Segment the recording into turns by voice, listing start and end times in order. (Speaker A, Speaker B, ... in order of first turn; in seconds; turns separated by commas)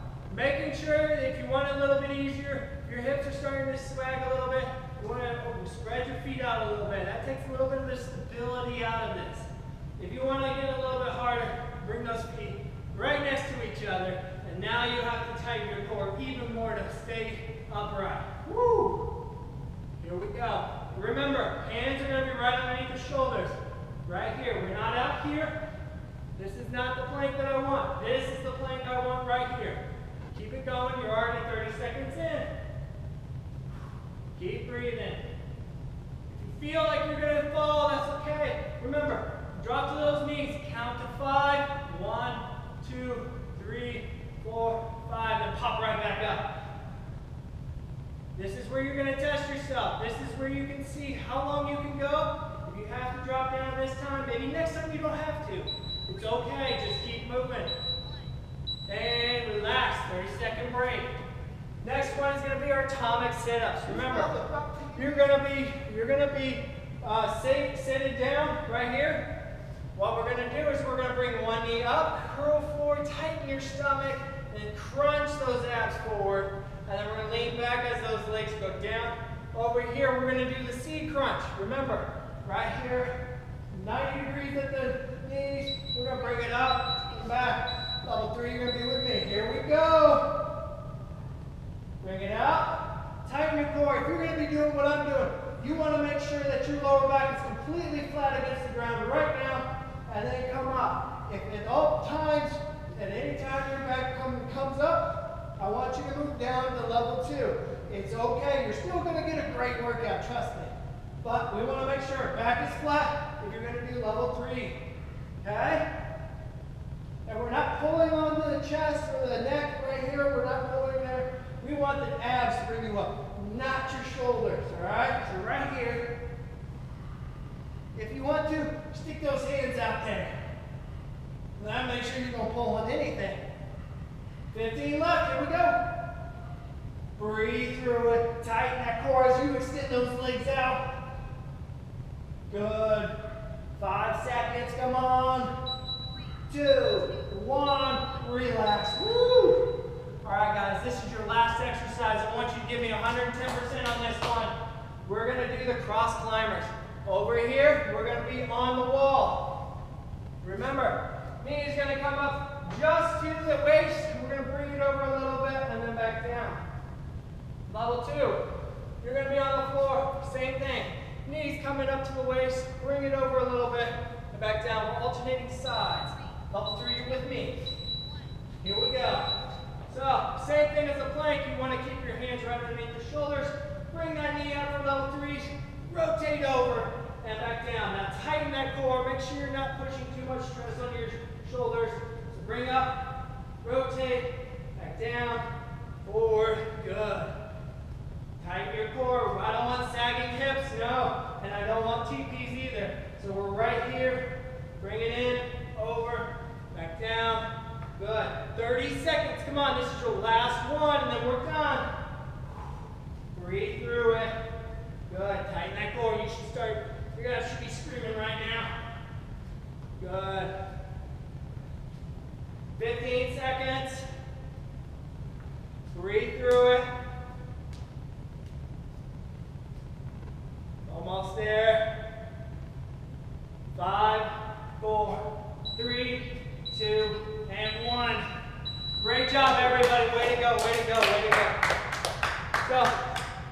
Speaker A: 0.3-19.1, Speaker A: 20.0-25.6, Speaker A: 26.4-29.8, Speaker A: 30.3-32.5, Speaker A: 34.3-35.2, Speaker A: 36.3-46.5, Speaker A: 48.4-57.7, Speaker A: 58.9-61.1, Speaker A: 61.8-69.3, Speaker A: 69.9-83.2, Speaker A: 83.7-90.4, Speaker A: 92.0-114.8, Speaker A: 115.4-115.8, Speaker A: 117.2-126.1, Speaker A: 127.9-130.4, Speaker A: 131.6-133.4, Speaker A: 134.5-135.8, Speaker A: 137.2-140.9, Speaker A: 142.5-143.1, Speaker A: 143.8-145.5, Speaker A: 146.5-149.7, Speaker A: 150.2-154.5, Speaker A: 155.0-159.7, Speaker A: 160.4-166.6, Speaker A: 167.7-168.4, Speaker A: 169.0-177.6, Speaker A: 178.6-179.3, Speaker A: 179.9-195.5, Speaker A: 196.0-197.3, Speaker A: 198.4-211.9, Speaker A: 213.3-214.3, Speaker A: 215.1-218.7, Speaker A: 220.0-220.5, Speaker A: 222.8-224.1, Speaker A: 225.9-226.9, Speaker A: 230.8-232.0, Speaker A: 233.7-238.2, Speaker A: 239.0-241.6, Speaker A: 242.6-243.0